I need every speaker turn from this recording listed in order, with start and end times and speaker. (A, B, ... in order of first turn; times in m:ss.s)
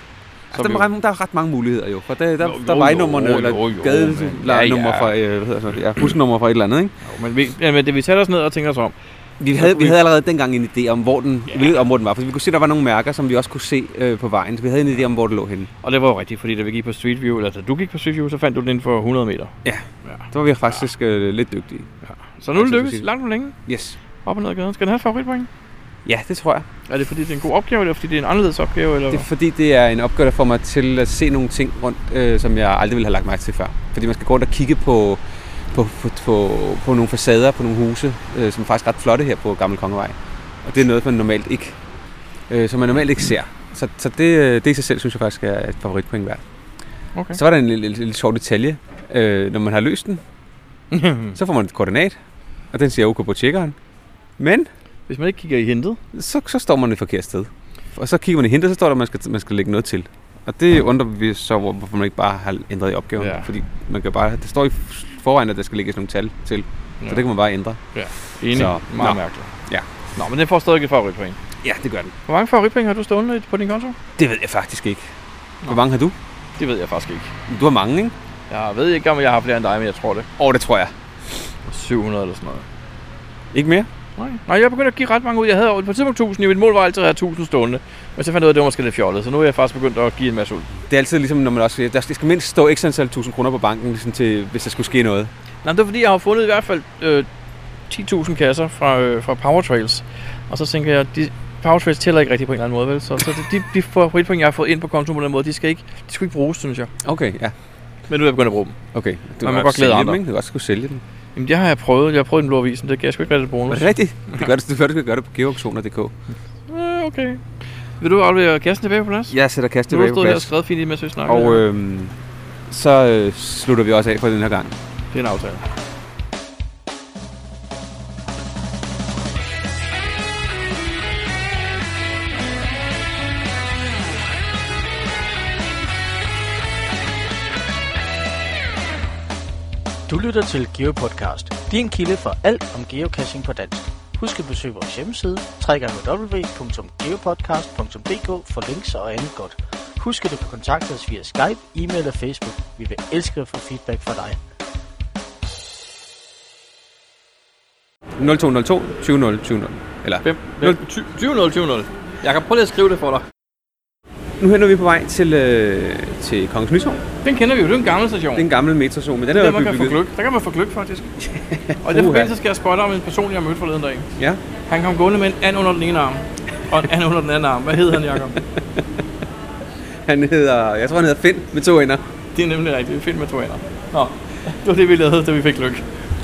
0:00.5-0:06.9 A
0:00.5-0:00.8 B
0:02.4-0:05.1 B
0:07.0-0:09.0 B
0:09.4-0:15.7 A
0:09.5-0:10.0 B
0:15.8-0:19.5 B
0:19.6-0:21.9 A
0:22.0-0:23.6 B
0:22.6-0:23.1 A
0:23.6-0:24.0 A
0:24.2-0:25.5 B
0:26.1-0:26.7 A
0:26.9-0:29.3 B
0:29.1-0:41.8 A
0:42.5-0:46.4 A
0:47.3-0:50.2 A
0:50.9-0:51.4 B
0:51.4-0:52.2 A
0:52.7-0:53.8 A
0:54.4-0:54.7 A
0:55.1-0:56.0 B
0:56.1-1:07.8 A
1:03.2-1:03.5 B
1:07.9-1:09.5 B
1:08.5-1:09.9 A
1:10.2-1:11.4 B
1:11.6-1:12.1 A
1:12.3-1:14.0 B
1:14.2-1:15.1 A
1:15.6-1:16.2 A
1:16.6-1:17.3 B
1:17.5-1:18.2 A
1:18.5-1:20.3 B
1:20.4-1:20.9 A
1:21.7-1:22.6 B
1:23.5-1:23.9 A
1:24.2-1:30.7 B
1:30.8-1:35.3 A
1:35.6-1:37.3 B
1:37.9-1:46.9 B
1:47.0-1:47.5 A
1:48.1-1:48.8 B
1:48.9-1:51.0 A
1:49.4-1:50.2 B
1:51.4-1:53.9 B
1:53.7-1:56.1 A
1:56.7-1:57.4 B
1:58.0-1:59.4 B
1:59.3-2:00.5 A
1:59.9-2:01.6 B
2:01.3-2:02.1 A
2:02.7-2:04.8 A
2:05.1-2:05.6 B
2:20.1-2:34.4 C
2:38.2-2:40.8 A
2:40.2-2:43.2 B
2:44.4-2:47.0 A
2:47.2-2:48.5 B
2:48.4-2:50.0 A
2:49.3-2:51.1 B
2:51.2-2:52.3 A
2:51.8-2:54.1 B
2:54.7-2:58.4 B
3:00.0-3:02.0 A
3:02.4-3:05.9 B